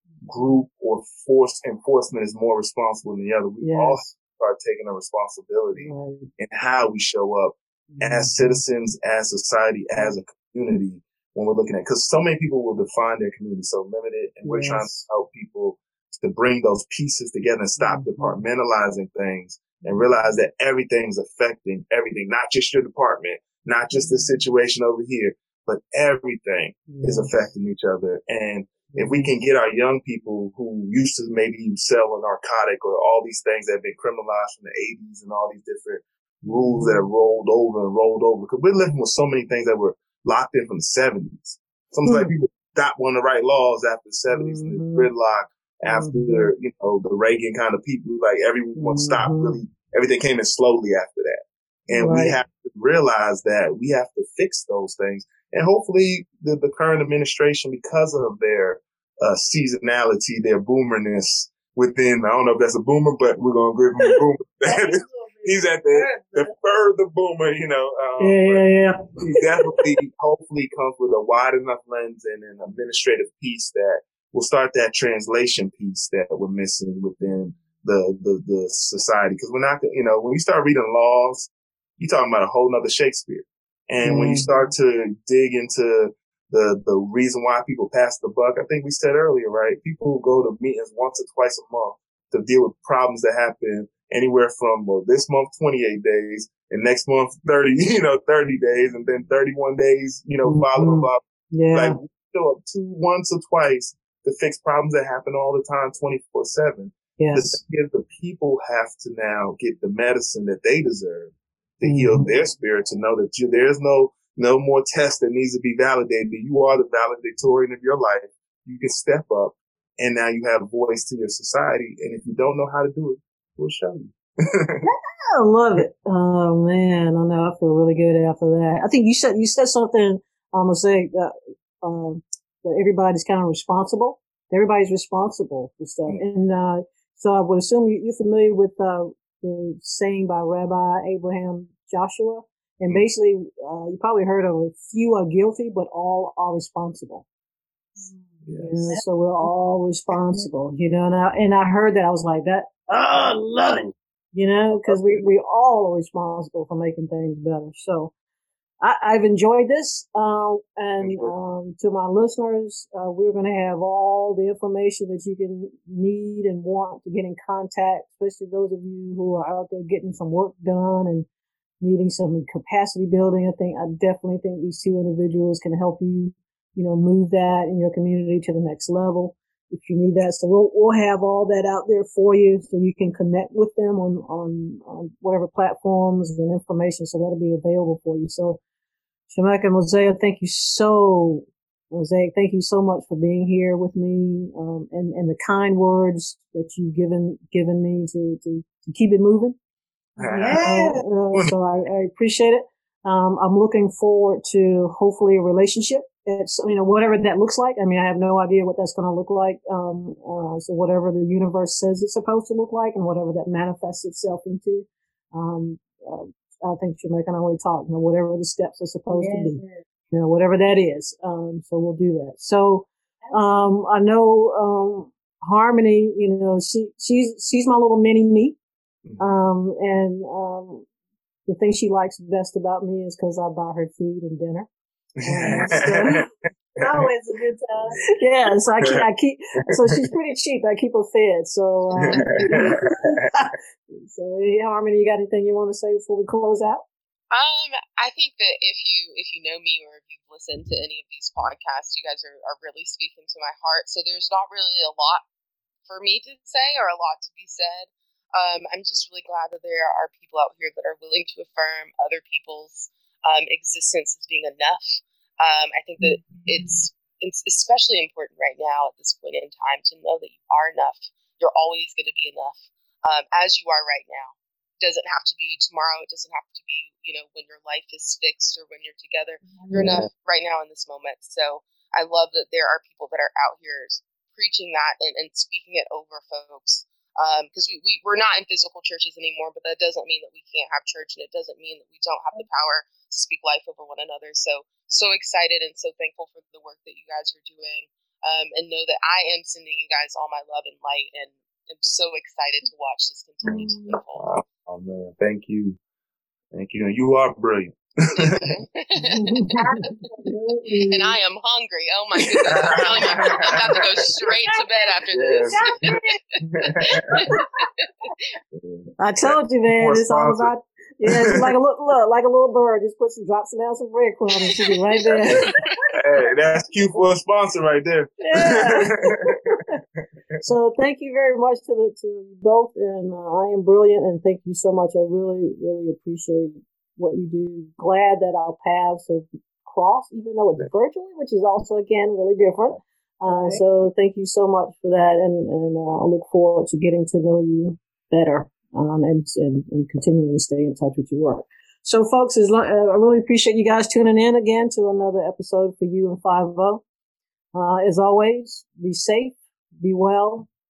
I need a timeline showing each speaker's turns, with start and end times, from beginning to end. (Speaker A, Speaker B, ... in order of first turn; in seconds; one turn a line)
Speaker A: 0.3-68.6
Speaker B: 3.6-4.0
Speaker B: 5.7-6.3
Speaker B: 7.9-8.6
Speaker B: 14.4-15.0
Speaker B: 17.8-18.4
Speaker B: 26.9-27.3
Speaker B: 28.9-29.3
Speaker B: 36.4-37.1
Speaker B: 42.0-42.3
Speaker B: 44.3-45.1
Speaker B: 45.9-46.5
Speaker B: 48.8-49.6
Speaker B: 52.0-52.4
Speaker C: 64.7-66.5
Speaker B: 68.2-69.8
Speaker A: 69.2-124.8
Speaker B: 84.0-84.5
Speaker B: 100.4-102.0
Speaker B: 107.2-107.5
Speaker B: 111.8-112.3
Speaker B: 124.8-147.2
Speaker C: 148.0-149.0
Speaker A: 148.4-148.9
Speaker B: 148.6-158.1
Speaker A: 154.7-155.2
Speaker B: 158.8-171.3
Speaker A: 161.0-161.3
Speaker B: 171.8-188.6
Speaker B: 189.3-199.6
Speaker A: 200.2-200.7
Speaker C: 200.2-201.0
Speaker B: 200.6-228.6
Speaker C: 219.1-219.8
Speaker B: 229.2-230.8
Speaker B: 231.4-234.7
Speaker A: 235.2-236.3
Speaker B: 235.2-236.2
Speaker C: 235.5-236.2
Speaker C: 236.8-238.1
Speaker A: 236.8-237.1
Speaker B: 238.1-246.8
Speaker A: 239.8-240.1
Speaker A: 242.0-243.3
Speaker D: 247.3-255.2
Speaker D: 255.9-304.3
Speaker C: 279.5-280.0
Speaker C: 303.5-303.9
Speaker A: 304.1-305.8
Speaker A: 306.5-308.6
Speaker D: 308.2-309.6
Speaker B: 309.0-309.9
Speaker C: 309.8-311.2
Speaker D: 310.9-316.0
Speaker A: 312.5-314.1
Speaker A: 315.1-317.3
Speaker C: 315.5-316.1
Speaker D: 317.0-318.1
Speaker A: 318.5-320.5
Speaker B: 319.0-325.4
Speaker A: 321.0-321.5
Speaker D: 325.3-325.7
Speaker A: 325.9-329.6
Speaker B: 328.2-329.8
Speaker B: 330.4-356.8
Speaker C: 343.3-343.6
Speaker B: 357.5-360.5